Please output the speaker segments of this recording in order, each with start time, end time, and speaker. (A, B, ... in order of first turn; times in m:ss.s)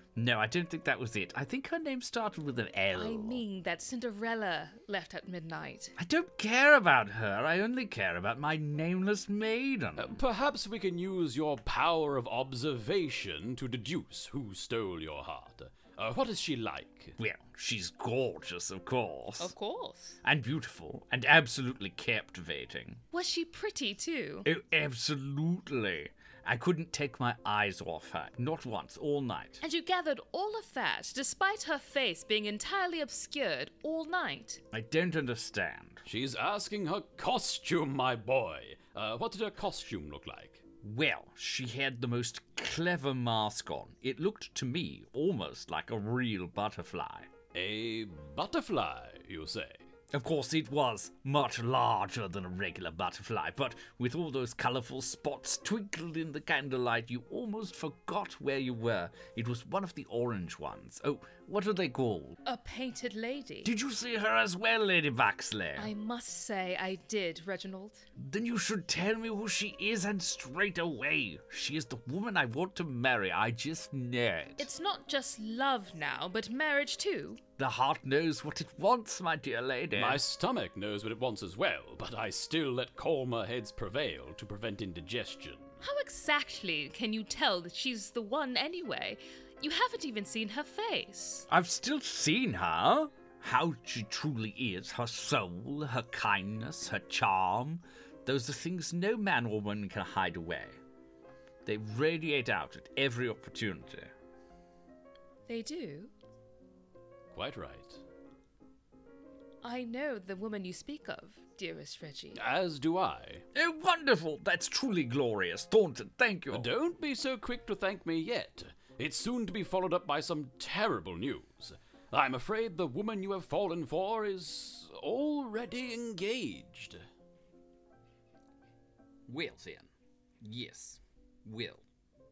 0:00.2-0:03.4 A
0:02.9-0:05.9 B
0:06.0-0:10.2 A
0:10.0-0:17.2 C
0:17.2-0:19.5 A
0:19.4-0:20.2 B
0:20.2-0:23.0 A
0:23.1-0:24.5 B
0:24.4-0:29.6 A
0:29.6-0:34.6 B
0:34.7-0:36.0 A
0:36.0-0:40.6 C
0:40.8-0:47.3 A
0:47.5-0:49.8 C
0:50.1-1:02.4 A
1:02.4-1:03.7 B
1:03.6-1:05.9 A
1:05.8-1:08.0 B
1:08.2-1:14.7 A
1:14.6-1:17.4 B
1:17.6-1:20.2 A
1:19.9-1:25.8 C
1:25.8-1:31.5 B
1:31.5-1:40.8 A
1:41.6-1:44.1 A
1:45.5-1:46.1 B
1:47.3-1:48.0 C
1:49.6-1:52.4 B
1:52.4-1:53.4 C
1:53.6-1:56.7 A
1:56.5-2:07.0 C
2:09.3-2:09.9 A
2:10.4-2:11.8 A